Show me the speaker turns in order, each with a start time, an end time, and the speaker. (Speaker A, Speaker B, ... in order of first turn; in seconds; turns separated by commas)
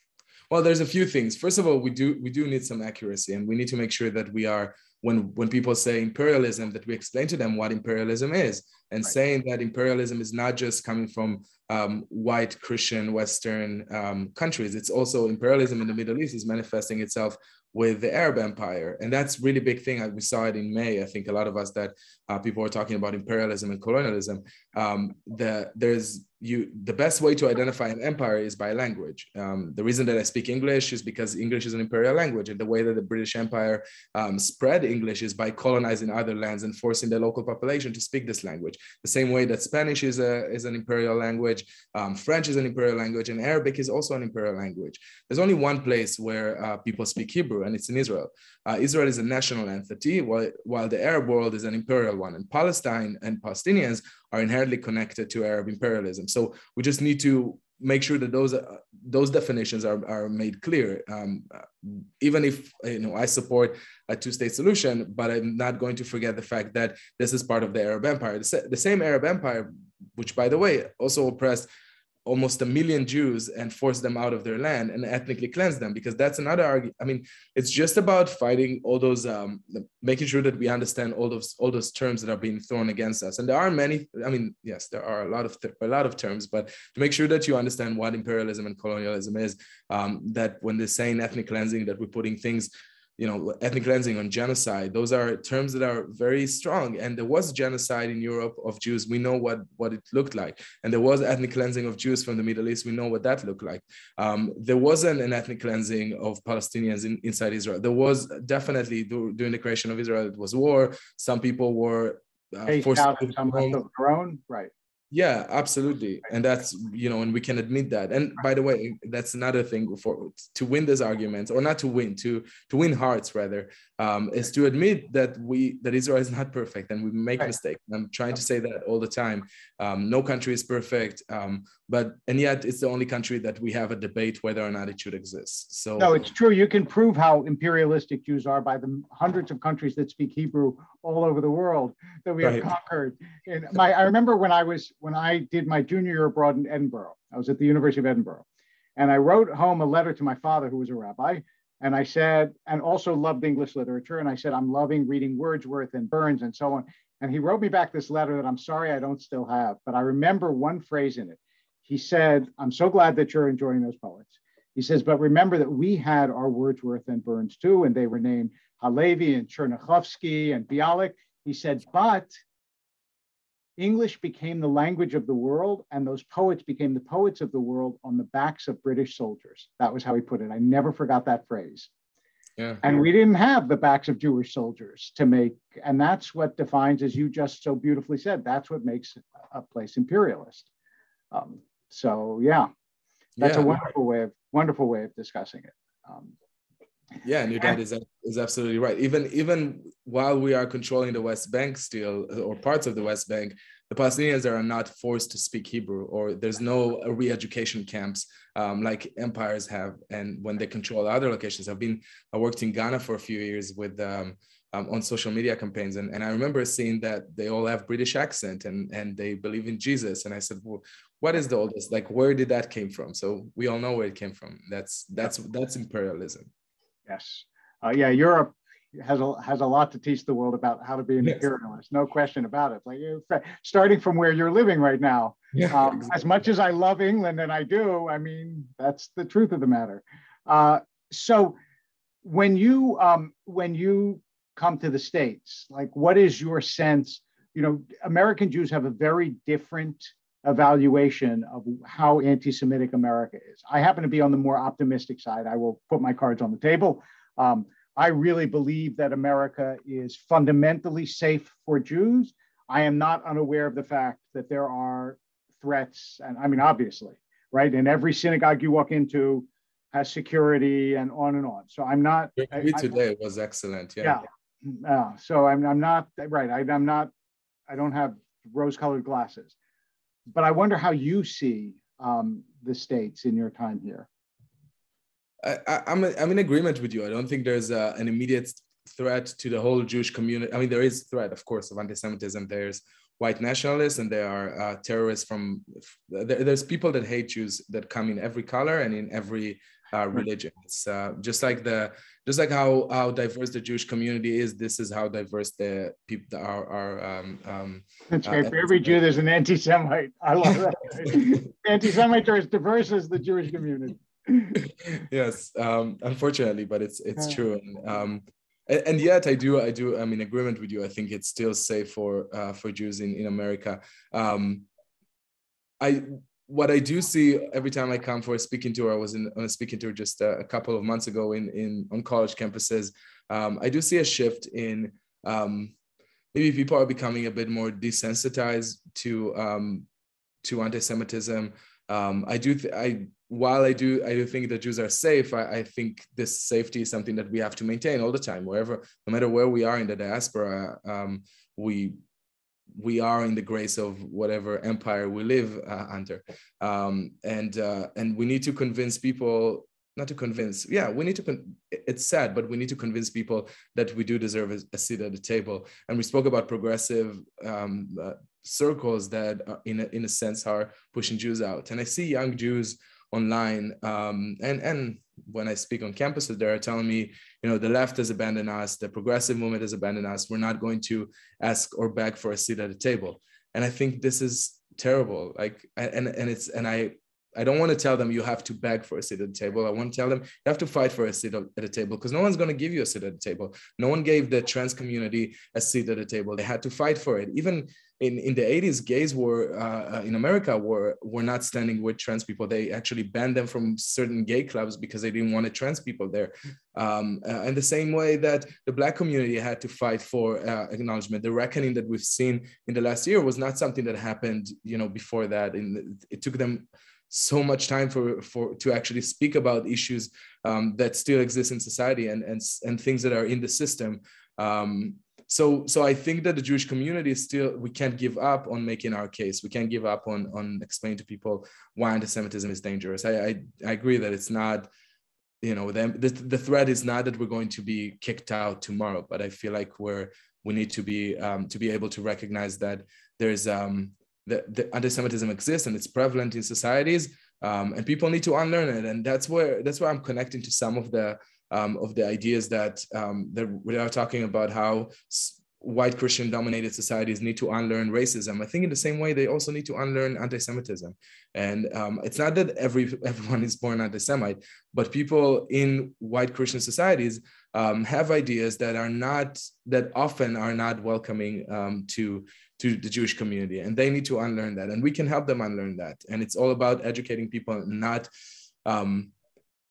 Speaker A: 0.5-71.7, Speaker A: 72.3-113.8, Speaker B: 112.7-114.7, Speaker A: 115.1-136.2, Speaker B: 136.0-148.4, Speaker A: 142.4-142.7, Speaker B: 149.0-172.3, Speaker B: 173.8-181.9, Speaker A: 182.6-182.8, Speaker B: 182.8-190.7, Speaker B: 191.3-192.7, Speaker A: 193.4-193.8, Speaker B: 193.4-196.3, Speaker A: 197.2-226.5, Speaker B: 227.1-241.6, Speaker A: 235.5-236.1, Speaker B: 242.2-272.9, Speaker A: 272.4-274.2, Speaker B: 274.0-277.1, Speaker B: 277.7-279.5, Speaker B: 280.3-284.1, Speaker A: 285.4-309.0, Speaker B: 308.1-314.6, Speaker A: 314.6-324.7, Speaker A: 325.8-335.7, Speaker A: 336.3-339.9, Speaker A: 340.4-352.0, Speaker A: 352.7-434.7, Speaker A: 435.4-478.1, Speaker A: 478.6-479.1